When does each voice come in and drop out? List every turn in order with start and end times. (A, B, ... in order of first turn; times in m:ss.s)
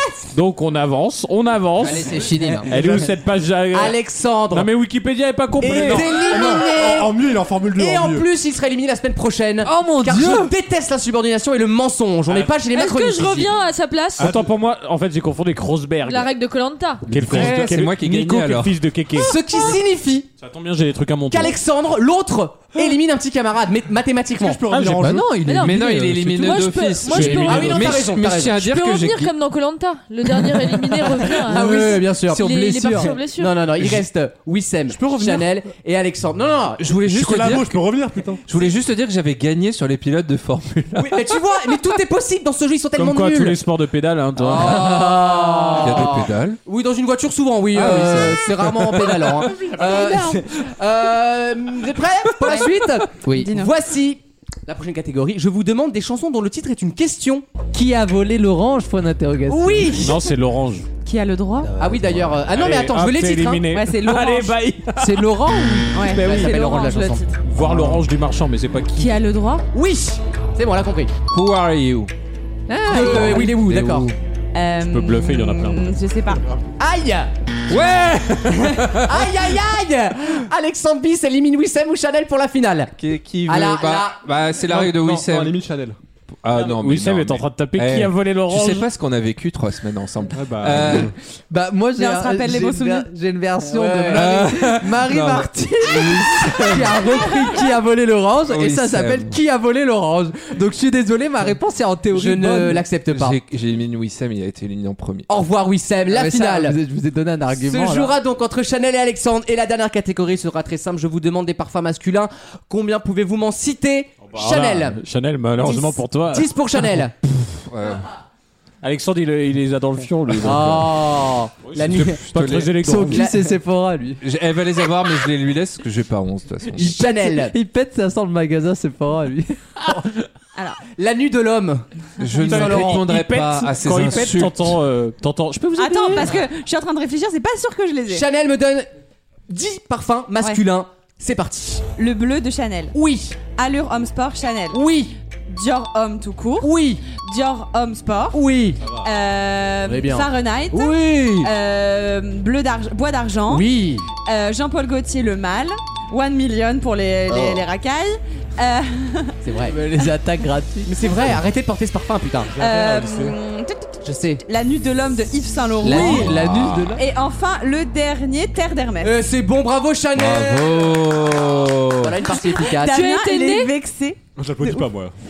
0:00.3-0:04.0 A
0:01.8-0:02.7 B
0:02.5-0:03.0 C
0:03.7-0:04.7 C
0:04.5-0:06.1 A
0:05.6-0:13.5 C
0:05.7-0:08.3 D
0:09.8-0:10.4 E
0:12.7-0:14.4 F
0:14.2-0:16.3 A
0:14.2-0:14.5 D
0:16.0-0:17.1 F
0:17.1-0:19.3 A
0:17.1-0:17.5 D
0:17.1-0:18.8 E
0:19.2-0:20.3 C
0:20.4-0:21.6 A
0:21.3-0:24.6 C
0:24.4-0:25.5 D
0:24.7-0:25.3 A
0:25.0-0:26.3 B
0:25.4-0:33.6 F
0:25.6-0:29.3 E
0:27.2-0:27.4 A
0:27.2-0:28.6 C
0:31.2-0:36.8 C
0:35.1-0:35.4 D
0:36.8-0:37.9 E
0:37.1-0:38.4 D
0:38.5-0:41.2 E
0:41.0-0:43.6 C
0:43.0-0:45.1 A
0:44.4-0:57.5 C
0:45.0-0:45.8 B
0:45.8-0:46.6 E
0:47.7-0:49.5 E
0:49.8-0:50.4 B
0:52.4-0:53.7 G
0:53.2-0:53.5 B
0:57.7-1:00.2 B
0:59.5-1:00.2 C
1:00.0-1:00.9 A
1:01.0-1:01.7 G
1:01.6-1:02.4 B
1:01.8-1:03.7 C
1:02.5-1:05.3 A
1:03.7-1:04.6 G
1:05.0-1:06.2 B
1:05.9-1:07.3 G
1:06.0-1:07.9 C
1:07.4-1:09.1 A
1:09.0-1:09.7 G
1:09.7-1:11.1 C
1:11.3-1:12.1 E
1:12.7-1:14.1 B
1:12.9-1:14.1 C
1:13.0-1:13.5 G
1:14.5-1:16.4 G
1:14.8-1:15.9 A
1:16.8-1:17.3 C
1:17.7-1:19.1 E
1:19.0-1:22.9 C
1:23.0-1:25.6 E
1:23.5-1:24.2 C
1:24.7-1:26.0 D
1:26.4-1:31.1 E
1:26.5-1:28.9 A
1:30.3-1:31.1 D
1:31.5-1:42.9 B
1:32.0-1:33.1 G
1:33.7-1:34.6 C
1:34.1-1:36.9 E
1:38.5-1:39.4 E
1:42.1-1:43.4 C
1:43.1-1:45.3 E
1:45.3-1:46.8 C
1:46.1-1:48.2 B
1:47.6-1:55.0 C
1:54.2-1:56.5 A
1:55.6-1:57.1 C
1:57.7-1:58.1 E
1:58.8-2:00.9 A
2:00.4-2:02.2 C
2:01.7-2:03.3 A
2:01.8-2:03.0 E
2:02.8-2:04.2 B
2:03.0-2:03.6 C
2:04.2-2:07.0 E
2:06.8-2:07.5 C
2:07.1-2:10.0 B
2:10.6-2:10.8 G
2:11.0-2:13.0 C
2:12.2-2:14.7 E
2:12.4-2:16.3 A
2:15.8-2:18.3 G
2:18.1-2:18.9 C
2:19.5-2:21.9 C
2:22.0-2:24.8 G
2:22.9-2:23.4 C
2:24.7-2:25.1 C
2:25.5-2:33.7 G
2:26.6-2:27.1 C
2:28.3-2:28.8 C
2:29.8-2:31.5 C
2:33.5-2:34.1 C
2:34.2-2:39.4 G
2:37.3-2:37.6 C
2:39.4-2:39.8 C
2:39.7-2:41.0 B
2:40.9-2:42.6 C
2:42.6-2:46.4 G
2:42.6-2:43.4 D
2:44.0-2:44.4 C
2:45.8-2:47.0 B
2:45.8-2:46.3 C
2:45.9-2:46.8 D
2:47.0-2:49.2 G
2:49.0-2:51.4 C
2:50.2-2:52.2 E
2:52.0-2:53.1 C
2:52.2-2:54.9 G
2:52.9-2:53.7 F
2:54.4-2:55.1 D